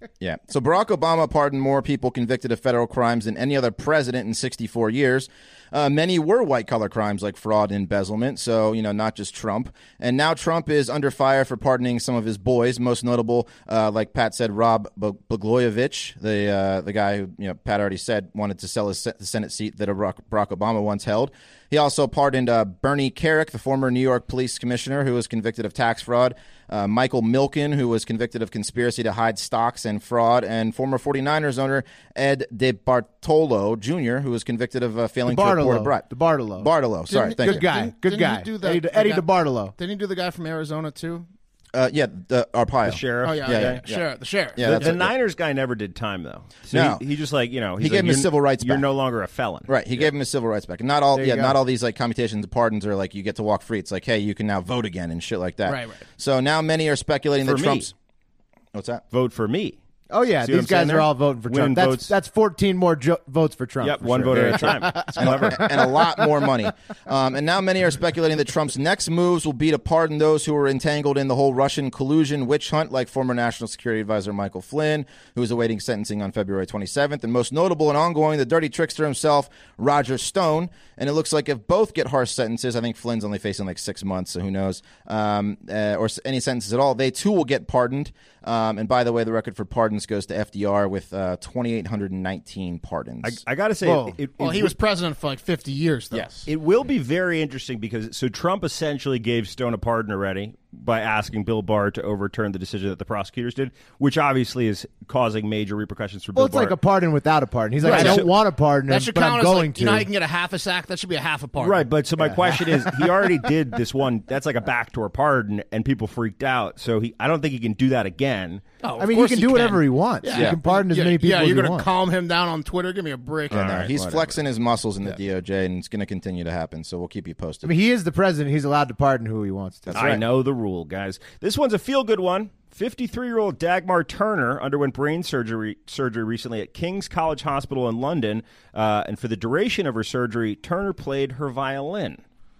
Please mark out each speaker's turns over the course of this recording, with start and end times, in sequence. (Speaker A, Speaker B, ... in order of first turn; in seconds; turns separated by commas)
Speaker A: 0.2-36.0, Speaker B: 35.2-36.7, Speaker A: 36.5-37.6, Speaker C: 37.1-41.3, Speaker B: 37.4-39.7, Speaker A: 41.7-44.0, Speaker D: 42.9-43.8, Speaker C: 43.2-45.0, Speaker A: 44.6-45.1, Speaker D: 44.6-50.1, Speaker A: 46.7-47.0, Speaker A: 47.8-48.8, Speaker A: 49.7-57.9, Speaker B: 51.1-51.6, Speaker C: 55.6-56.0, Speaker D: 57.4-57.9, Speaker A: 58.7-59.0, Speaker D: 59.1-59.8, Speaker B: 60.1-65.9, Speaker D: 60.4-62.1, Speaker D: 63.8-65.9, Speaker A: 64.3-93.4, Speaker D: 93.2-94.7, Speaker B: 93.8-94.2, Speaker C: 94.4-96.2, Speaker A: 96.1-96.5, Speaker D: 96.5-106.8, Speaker B: 106.3-110.1, Speaker D: 107.8-108.3, Speaker C: 107.8-108.3, Speaker C: 108.9-111.9, Speaker D: 111.6-118.6, Speaker B: 112.2-113.4, Speaker C: 118.8-123.9, Speaker B: 119.0-121.9, Speaker A: 120.3-120.6, Speaker A: 123.5-127.7, Speaker D: 123.5-124.3, Speaker B: 127.6-130.2, Speaker A: 129.9-130.2, Speaker D: 129.9-142.2